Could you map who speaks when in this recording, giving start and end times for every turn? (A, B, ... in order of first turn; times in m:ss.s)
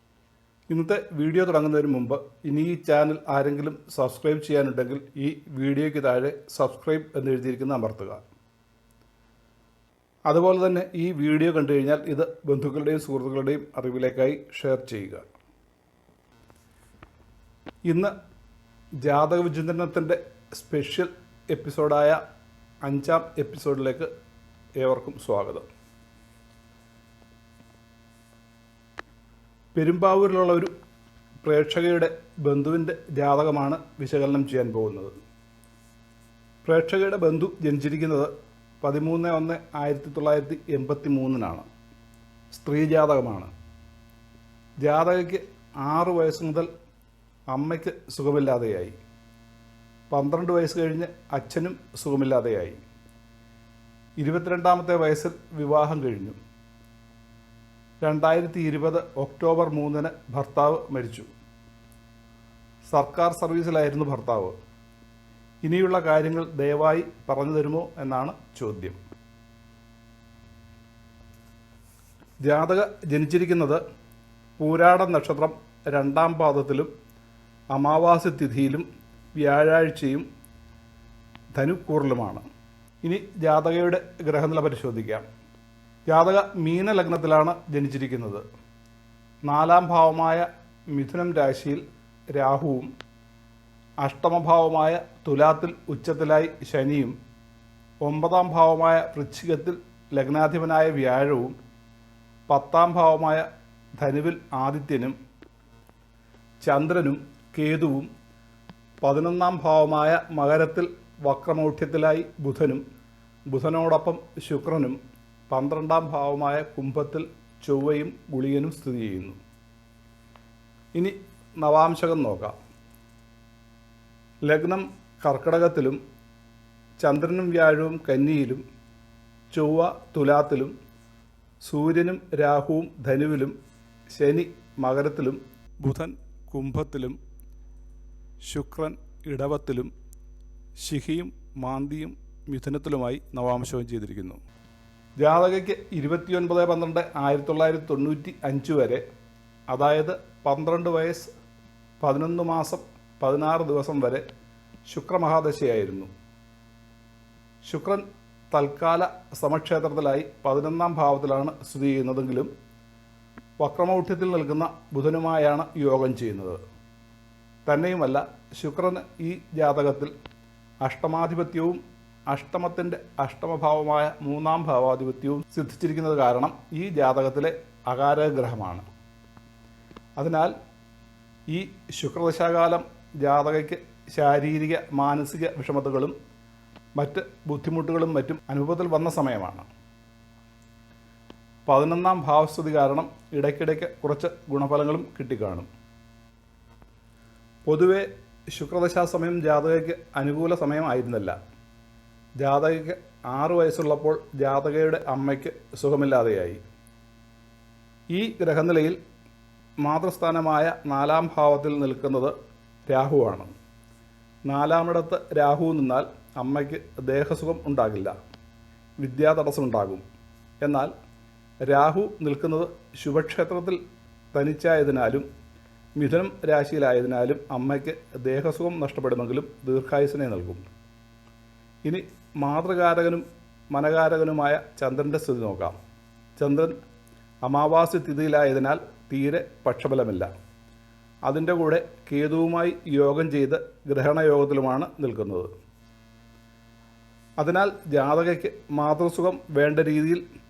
0:00.7-0:08.2 A
0:10.3-0:15.2 A
0:17.9-0:18.1 A
0:19.0-0:22.2 A
0:22.8-0:24.1 A
0:24.8-0:25.7 A
0:29.8-0:30.7 A
0:31.4-0:35.1 A
0:36.6-0:41.7 A
0:42.5-0:43.5 A
0:44.8-0:46.7 A
0:47.5-0:49.0 A
0:50.1-0:52.8 A
0:54.2-0:56.4 A
0:58.0-1:01.3 A
1:02.9-1:04.6 A
1:05.6-1:09.0 A
1:12.4-1:13.8 A
1:14.6-1:16.9 A
1:17.7-1:18.9 A
1:19.4-1:20.2 A
1:21.6-1:22.4 A
1:23.0-1:25.3 A
1:26.1-1:28.4 A
1:29.5-1:31.8 A
1:32.4-1:32.9 A
1:34.0-1:37.2 A
1:38.0-1:41.6 A
1:42.5-1:43.4 A
1:44.0-1:45.2 A
1:46.6-1:48.1 A
1:49.0-1:52.8 A
1:53.5-1:55.0 A
1:55.5-1:59.4 A
2:01.0-2:02.5 A
2:04.5-2:06.0 A
2:07.0-2:08.6 A
2:09.5-2:10.7 A
2:11.6-2:13.6 A
2:14.1-2:17.2 A
2:18.4-2:19.9 A
2:20.8-2:24.4 A
2:25.2-2:29.0 A
2:29.7-2:31.3 A
2:32.0-2:34.2 A
2:34.9-2:36.1 A
2:37.6-2:42.5 A
2:43.6-2:46.6 A
2:47.7-2:50.1 A
2:50.8-2:58.9 A
3:00.2-3:00.5 A
3:01.5-3:06.2 A
3:07.0-3:09.7 A
3:11.7-3:15.7 A
3:17.7-3:21.4 A
3:22.4-3:26.6 A
3:28.1-3:29.0 A
3:29.8-3:32.3 A
3:32.9-3:33.5 A
3:34.5-3:38.2 A
3:39.0-3:40.0 A
3:40.6-3:40.9 A
3:41.7-3:43.8 A
3:44.3-3:45.3 A
3:46.0-3:50.6 A
3:51.9-3:55.8 A
3:56.4-3:56.8 A
3:57.4-4:00.3 A
4:01.3-4:05.5 A
4:07.4-4:10.2 A